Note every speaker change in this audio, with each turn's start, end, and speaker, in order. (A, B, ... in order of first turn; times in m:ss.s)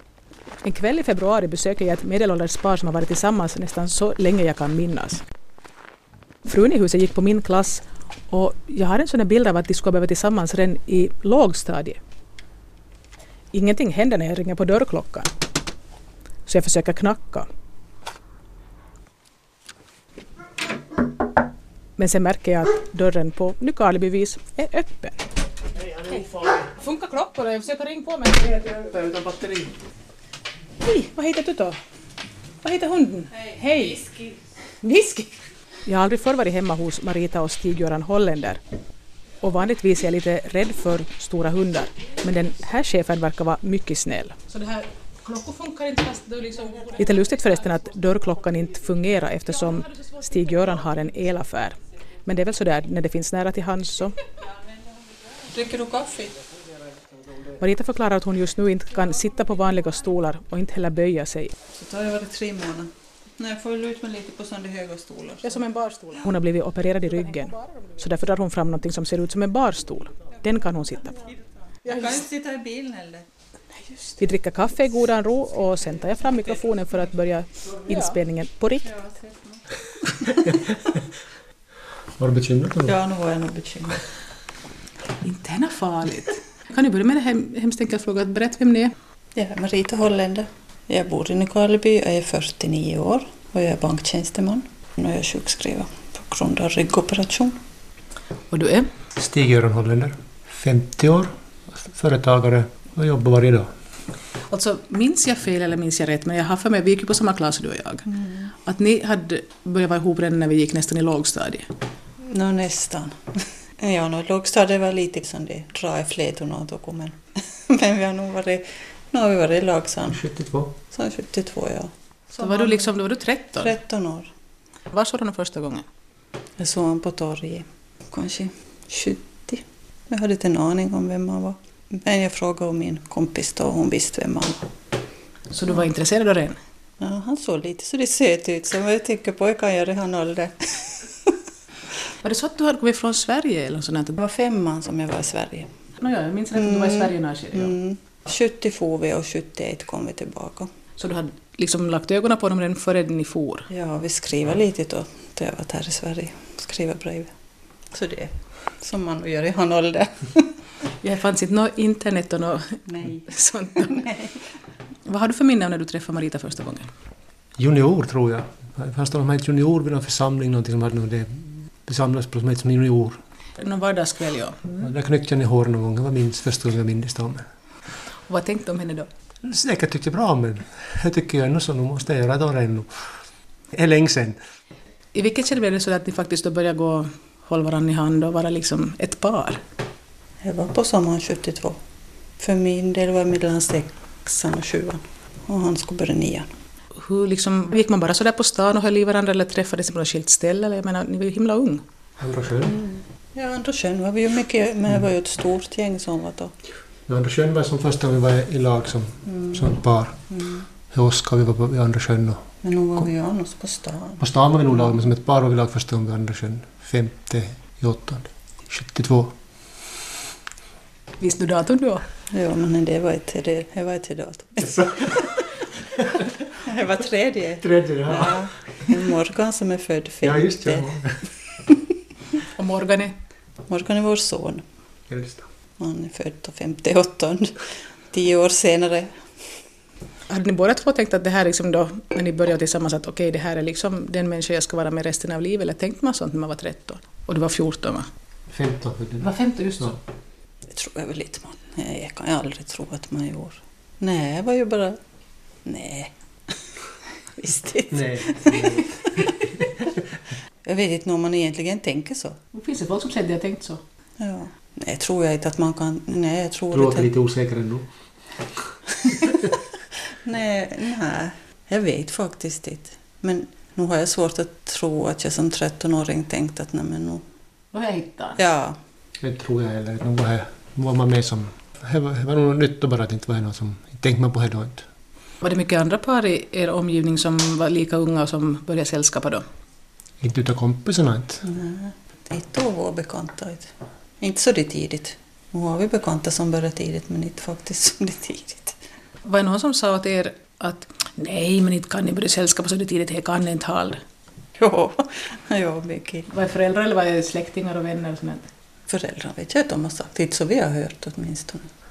0:00.6-0:05.2 A
0:06.4-0:12.0 A
0:13.5-0:15.3 A
0:16.5-0:17.5 A
0:22.0-0:25.2 A
0:25.9-0:26.7 B
0:26.1-0:28.6 A
0:28.6-0:29.7 B
0:30.8-0:31.8 A
0:32.6-0:34.1 A
0:34.8-0:38.6 A
0:39.4-0:54.2 A
0:55.4-0:56.4 C
0:57.5-1:01.5 A
1:01.7-1:05.6 C
1:05.4-1:11.2 A
1:11.8-1:13.2 C
1:13.8-1:18.9 A
1:18.8-1:20.6 C
1:20.4-1:21.0 B
1:22.2-1:22.9 B
1:22.8-1:24.0 C
1:25.2-1:28.9 A
1:29.4-1:37.6 C
1:38.5-1:38.9 A
1:39.2-1:43.7 B
1:44.5-1:48.1 A
1:48.6-1:51.7 A
1:52.2-1:53.2 C
1:53.8-2:00.2 C
2:00.1-2:00.8 B
2:00.9-2:03.0 C
2:02.4-2:03.7 A
2:03.6-2:04.3 C
2:04.9-2:05.8 A
2:06.6-2:14.7 C
2:15.5-2:16.6 A
2:17.0-2:21.3 C
2:22.2-2:24.2 A
2:24.2-2:25.7 C
2:26.0-2:27.7 A
2:26.6-2:30.7 C
2:31.0-2:33.7 A
2:33.7-2:37.3 C
2:37.9-2:40.5 C
2:41.0-2:44.0 A
2:42.9-2:44.3 C
2:45.0-2:46.9 A
2:47.6-2:53.2 B
2:53.6-2:54.8 A
2:54.8-2:57.4 B
2:58.3-2:59.1 A
2:59.4-3:02.9 B
3:03.7-3:04.4 B
3:05.1-3:09.6 A
3:10.4-3:11.8 C
3:12.4-3:16.5 C
3:16.9-3:21.8 A
3:22.2-3:22.7 B
3:22.6-3:26.5 C
3:27.1-3:30.2 B
3:29.3-3:29.6 C
3:30.3-3:30.6 C
3:30.9-3:32.4 B
3:32.6-3:34.2 C
3:34.2-3:39.4 B
3:41.2-3:42.0 A
3:42.3-3:45.4 C
3:44.7-3:45.2 B
3:46.0-3:46.2 B
3:46.5-3:50.9 C
3:47.6-3:48.5 B
3:50.2-3:51.2 B
3:52.5-3:53.1 A
3:53.7-3:54.6 C
3:55.1-3:55.4 B
3:55.8-3:59.1 C
4:00.3-4:08.0 A
4:08.5-4:10.0 B
4:09.2-4:10.0 A
4:10.7-4:15.0 C
4:15.6-4:16.1 C
4:17.4-4:19.3 C
4:17.9-4:19.2 B
4:20.6-4:22.4 C
4:22.5-4:23.8 A
4:24.2-4:27.1 C
4:26.7-4:27.9 B
4:29.1-4:29.5 C
4:30.2-4:37.2 C
4:37.7-4:38.4 A
4:38.4-4:38.8 C
4:39.2-4:44.8 B
4:45.4-4:49.4 A
4:50.2-4:51.4 B
4:51.4-4:58.8 C
4:59.2-5:04.0 A
5:04.6-5:06.3 C
5:06.3-5:08.5 A
5:08.9-5:11.7 C